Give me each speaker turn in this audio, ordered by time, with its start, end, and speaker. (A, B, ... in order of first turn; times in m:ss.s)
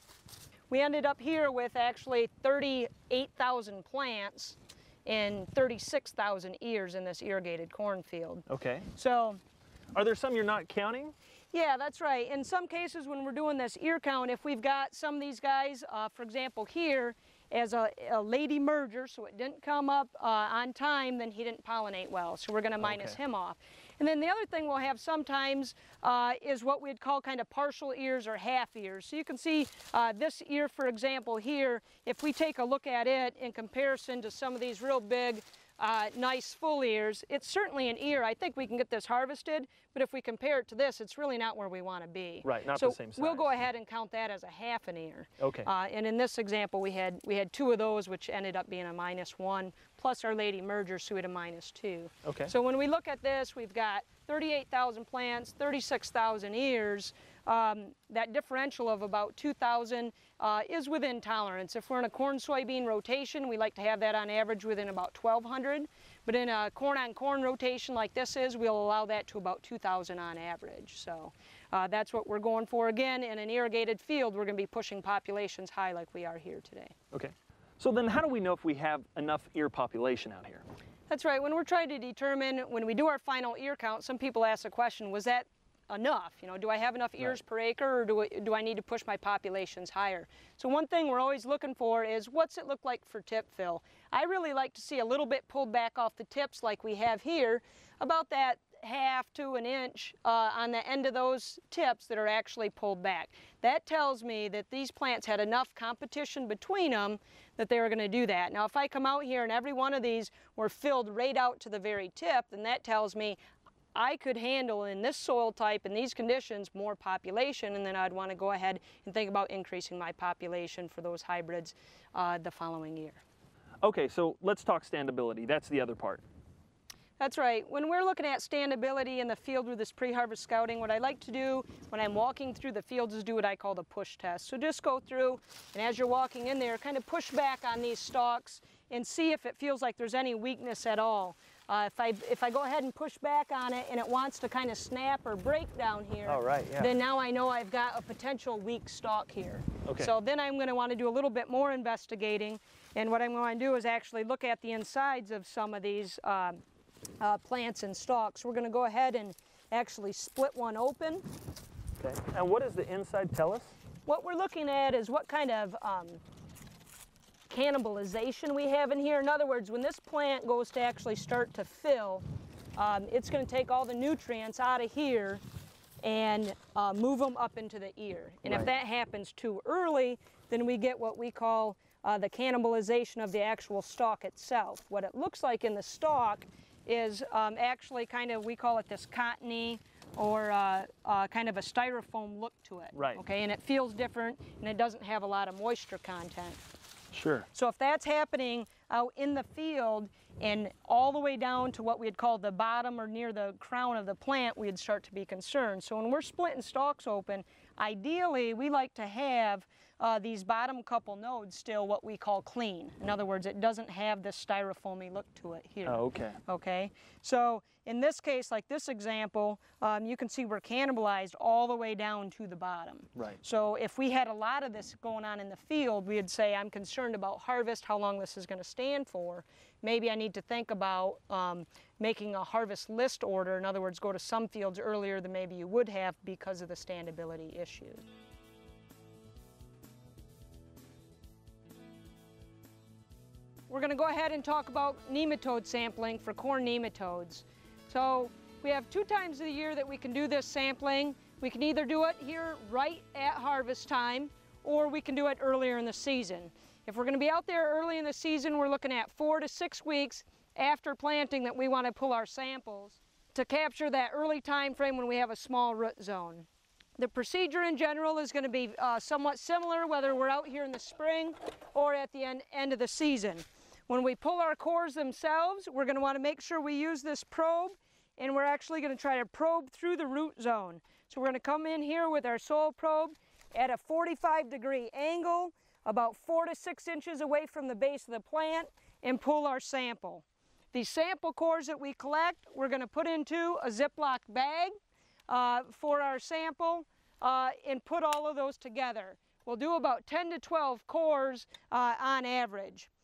0:00.7-0:09.4 A
0:08.5-0:08.9 B
0:09.9-0:11.2 B
0:11.5-1:17.0 A
0:22.8-0:23.2 B
0:42.4-0:43.5 B
0:45.4-0:45.7 B
0:52.2-0:52.5 B
1:17.1-1:20.6 B
1:21.1-1:53.4 A
1:54.0-2:03.2 A
2:03.8-2:06.2 B
2:07.2-2:36.6 A
2:26.3-2:27.0 B
2:29.8-2:30.1 B
2:37.2-2:41.2 A
2:42.0-2:43.8 B
2:44.1-2:46.2 A
2:47.5-2:52.2 A
2:52.8-2:55.4 A
2:56.0-3:16.6 A
2:58.4-2:58.7 B
3:12.9-3:13.2 B
3:17.1-3:17.5 B
3:17.5-3:58.0 A
3:35.8-3:36.4 B
4:03.7-4:26.5 A
4:27.0-4:54.8 A
4:55.3-5:02.9 A